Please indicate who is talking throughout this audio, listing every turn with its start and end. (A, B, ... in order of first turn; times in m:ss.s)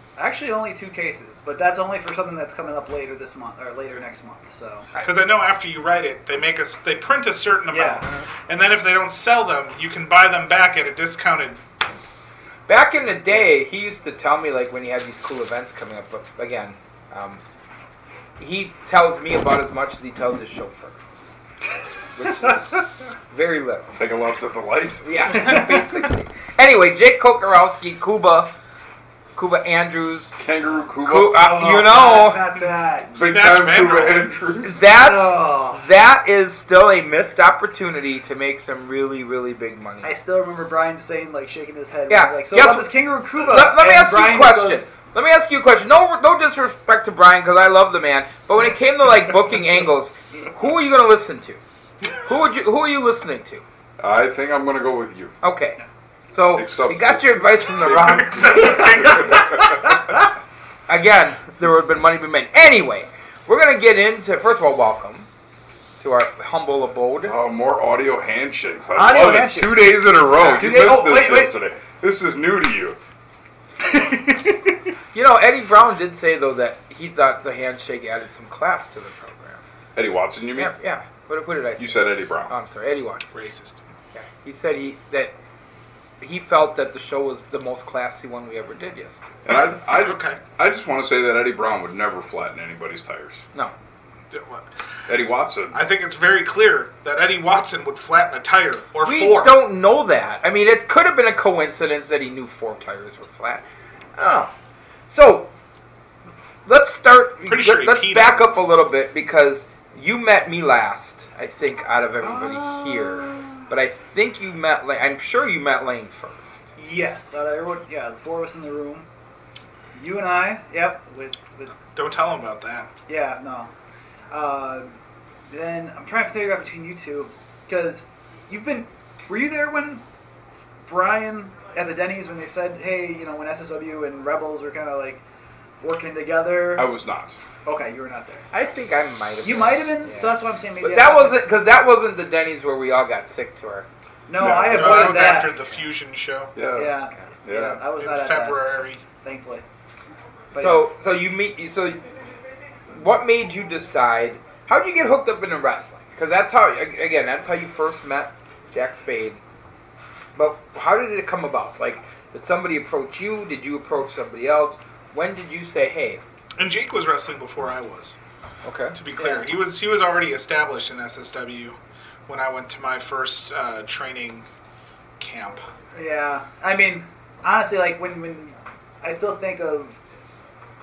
0:00.2-0:04.9 A
0:05.0-0:11.6 B
0:07.7-0:08.0 A
0:12.7-0:17.4 C
0:18.4-0:21.0 C
0:22.2-0:24.0 C
0:24.0-0:25.0 D
0:25.0-0:28.5 C
0:25.3-0:26.1 A
0:29.4-0:30.3 C
0:30.4-0:31.7 D
0:31.0-0:32.5 C
0:31.3-0:33.2 A
0:33.1-0:34.8 D
0:33.2-0:34.3 B
0:34.6-0:40.1 C
0:34.8-0:35.8 A
0:40.0-0:44.9 A
0:42.1-0:51.6 C
0:52.2-0:53.6 C
0:54.0-0:55.4 D
0:55.4-0:55.8 C
0:56.3-0:58.8 C
0:56.6-0:59.9 D
0:58.4-0:59.2 B
0:58.6-0:59.3 A
1:00.9-1:05.3 C
1:06.0-1:07.3 C
1:07.2-1:13.0 D
1:08.9-1:11.5 A
1:13.8-1:14.7 A
1:15.1-1:19.6 C
1:19.9-1:20.7 D
1:20.5-1:23.3 C
1:21.8-1:22.5 D
1:23.3-1:23.8 B
1:24.1-1:25.3 C
1:26.2-1:29.2 C
1:29.4-1:33.4 D
1:29.8-1:30.4 B
1:34.3-1:34.6 B
1:35.1-1:35.8 D
1:35.7-1:39.6 B
1:39.0-1:43.6 C
1:44.2-1:44.5 C
1:45.1-1:45.5 C
1:46.6-1:56.6 C
1:47.4-1:48.5 B
1:52.2-1:53.6 A
1:56.8-1:59.1 A
1:59.9-2:01.7 A
2:01.9-2:02.9 B
2:03.1-2:03.7 A
2:04.3-2:04.9 A
2:05.5-2:10.0 A
2:10.9-2:15.2 A
2:15.8-2:16.9 A
2:16.7-2:17.4 D
2:17.6-2:18.5 A
2:18.5-2:23.9 C
2:19.4-2:21.5 A
2:24.3-2:25.5 A
2:24.4-2:25.3 D
2:24.7-2:26.5 B
2:26.6-2:26.9 D
2:26.7-2:28.7 A
2:27.4-2:27.8 D
2:27.9-2:29.0 B
2:29.2-2:29.6 A
2:30.5-2:30.9 A
2:30.5-2:32.0 C
2:32.9-2:39.4 C
2:40.4-2:46.2 C
2:46.6-2:48.2 B
2:48.6-2:49.0 C
2:49.0-2:54.4 B
2:49.2-2:49.5 A
2:55.2-2:55.6 B
2:55.9-3:00.0 A